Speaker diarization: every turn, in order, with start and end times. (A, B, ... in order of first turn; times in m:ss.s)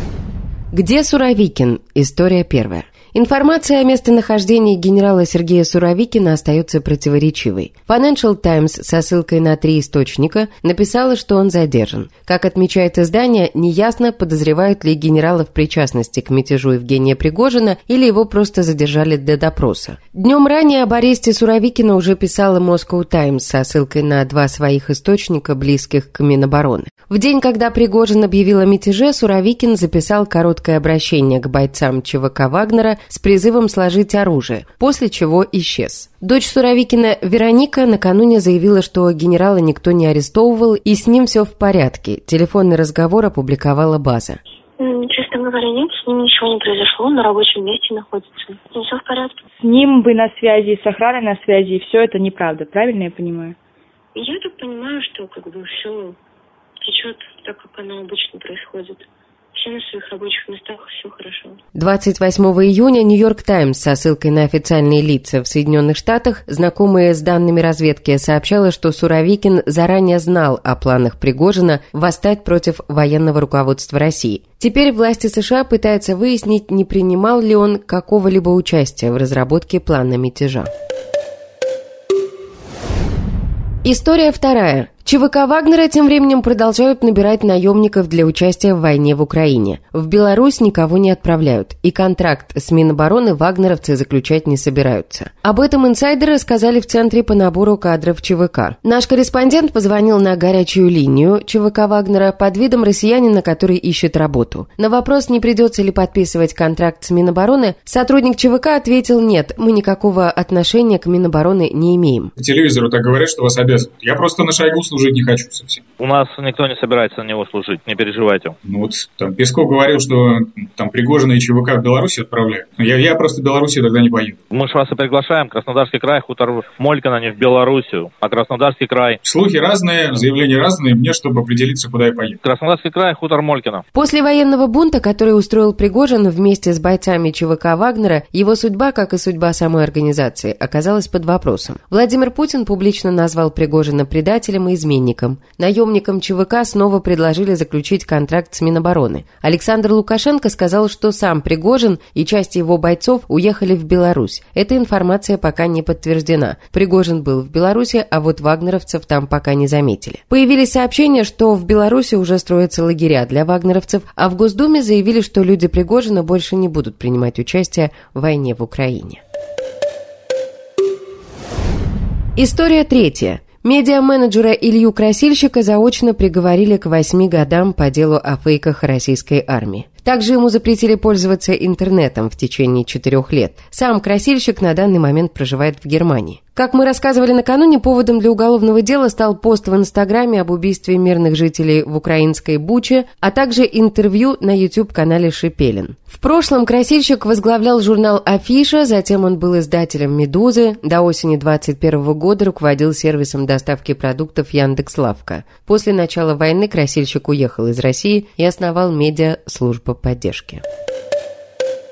0:00.7-0:44.4 A
0:44.8-0:49.4 B
0:49.6-0:53.6 C
0:54.1-0:56.2 B
0:56.8-0:59.0 B
0:59.6-1:01.6 B
1:01.8-1:20.7 A
1:23.8-1:52.3 A
1:52.4-1:55.8 D
1:56.0-1:58.6 E
1:58.6-2:04.4 D
2:04.5-2:09.2 E
2:09.2-2:12.4 D
2:12.4-2:13.8 E
2:13.9-2:49.2 A
2:52.4-3:30.6 A